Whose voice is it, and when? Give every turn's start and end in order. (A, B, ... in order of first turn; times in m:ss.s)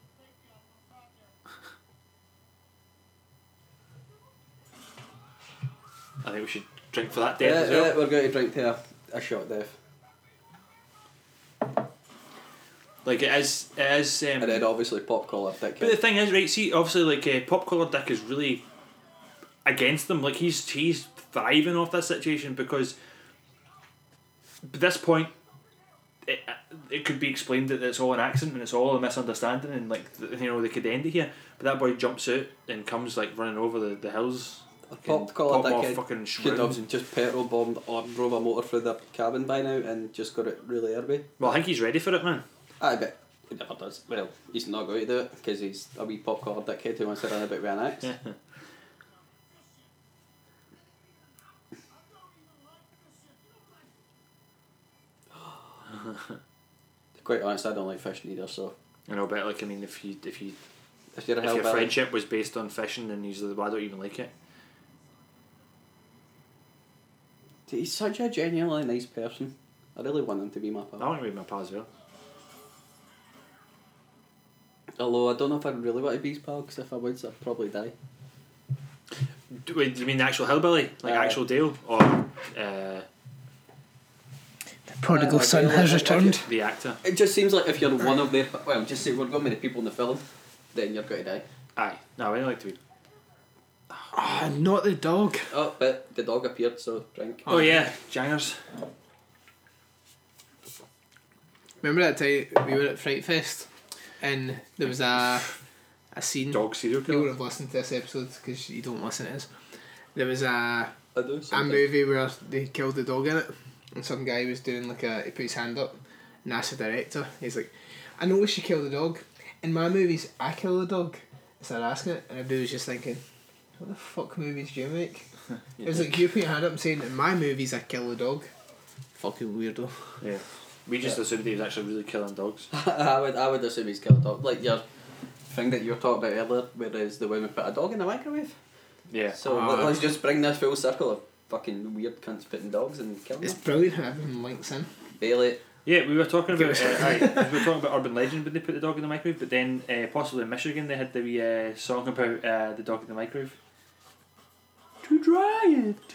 0:06.2-0:08.0 A
0:07.4-0:09.8 B
0:13.0-0:14.7 A
0:14.4-0:16.0 B
0:15.8-0:18.6 A
0:19.6-0:23.0 A
0:24.6-0:25.3 A
0:26.2-0:36.9 A
0:34.9-0:41.5 B
0:41.4-0:42.4 A
0:42.8-0:48.1 B
0:48.1-0:48.3 A
0:57.2-0:58.8 B
0:59.1-1:00.6 A
1:01.2-1:02.0 B
1:01.4-1:04.3 A
1:07.7-1:11.1 B
1:11.0-1:11.9 A
1:15.0-1:17.9 B
1:19.5-1:23.1 A
1:21.0-1:21.4 B
1:25.0-1:26.4 C
1:25.1-1:26.4 B
1:26.4-1:27.0 A
1:27.0-1:31.4 B
1:31.8-1:32.8 A
1:34.1-1:35.5 C
1:35.5-1:37.5 B
1:37.5-1:37.9 C
1:37.5-1:38.6 A
1:41.8-1:43.7 C
1:44.2-1:45.5 C
1:46.1-1:49.5 C
1:46.5-1:47.3 A
1:50.2-1:50.9 C
1:51.2-1:51.9 B
1:51.5-2:03.2 C
2:03.8-2:05.3 C
2:05.8-2:06.1 B
2:05.8-2:08.5 C
2:09.2-2:10.2 C
2:10.2-2:12.7 A
2:12.7-2:14.8 B
2:15.5-2:18.6 B
2:19.1-2:19.4 A
2:19.3-2:23.6 B
2:19.4-2:20.0 C
2:23.4-2:24.9 C
2:25.2-2:25.6 B
2:25.9-2:33.6 A
2:26.6-2:27.6 C
2:35.0-2:36.0 B